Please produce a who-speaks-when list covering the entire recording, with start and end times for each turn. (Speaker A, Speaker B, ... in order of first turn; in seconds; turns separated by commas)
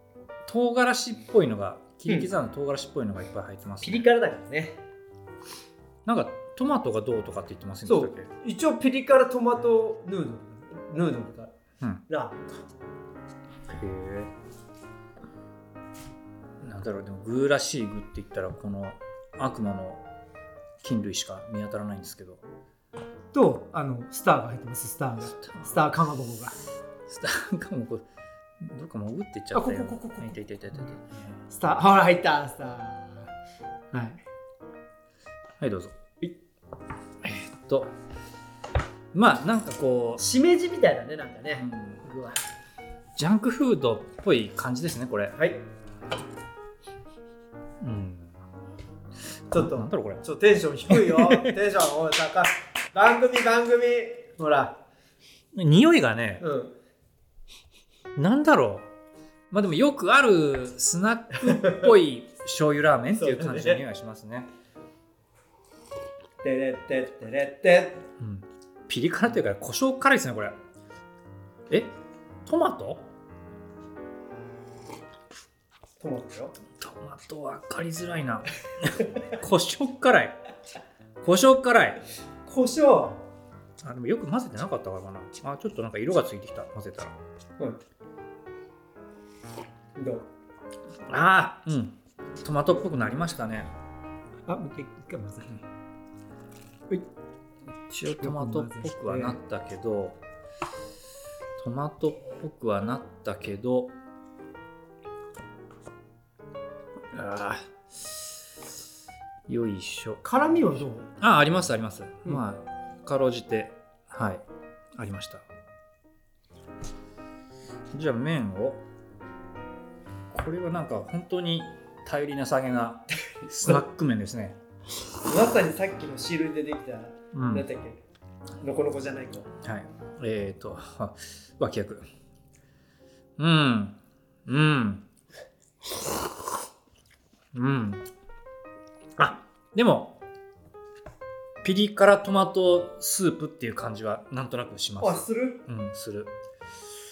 Speaker A: 0.5-4.1, Speaker B: 3.8-4.8, Speaker A: 6.0-8.3, Speaker B: 7.8-11.5, Speaker B: 12.1-12.5, Speaker A: 13.7-14.3, Speaker A: 16.6-20.0, Speaker A: 20.8-22.4, Speaker B: 23.3-26.6, Speaker A: 25.4-25.7, Speaker A: 27.1-28.0, Speaker A: 28.6-31.4, Speaker B: 29.5-30.9, Speaker B: 31.5-33.3, Speaker B: 33.9-34.2, Speaker A: 35.6-35.9, Speaker A: 37.2-37.9, Speaker A: 39.1-40.2, Speaker B: 40.2-42.4, Speaker A: 41.5-42.0, Speaker A: 43.1-45.4, Speaker A: 47.8-48.4, Speaker B: 49.5-54.8, Speaker A: 49.5-50.2, Speaker A: 50.9-51.5, Speaker A: 55.5-56.4, Speaker B: 56.4-56.7, Speaker A: 58.1-58.9, Speaker A: 59.5-64.5, Speaker B: 61.6-61.9, Speaker B: 63.1-63.8, Speaker B: 66.4-68.0, Speaker A: 68.2-70.5, Speaker A: 71.7-71.9, Speaker A: 72.5-73.0, Speaker B: 76.0-76.5, Speaker A: 76.7-80.4, Speaker A: 81.2-82.0, Speaker B: 82.5-83.2, Speaker A: 83.8-87.1, Speaker B: 90.0-90.2, Speaker A: 91.1-93.7, Speaker B: 94.5-95.6, Speaker A: 97.9-100.2, Speaker B: 98.2-99.4, Speaker A: 101.6-103.9, Speaker A: 107.1-108.2, Speaker A: 109.5-110.2, Speaker B: 110.2-111.1, Speaker A: 111.2-114.4, Speaker A: 115.0-115.4, Speaker A: 117.9-118.8, Speaker A: 120.3-124.6, Speaker B: 123.4-123.8, Speaker B: 125.2-128.0, Speaker A: 127.3-127.6, Speaker B: 128.6-129.5, Speaker A: 129.6-132.1, Speaker A: 133.4-135.1, Speaker A: 137.5-138.1, Speaker A: 139.2-140.2, Speaker A: 141.6-146.3, Speaker B: 145.0-145.6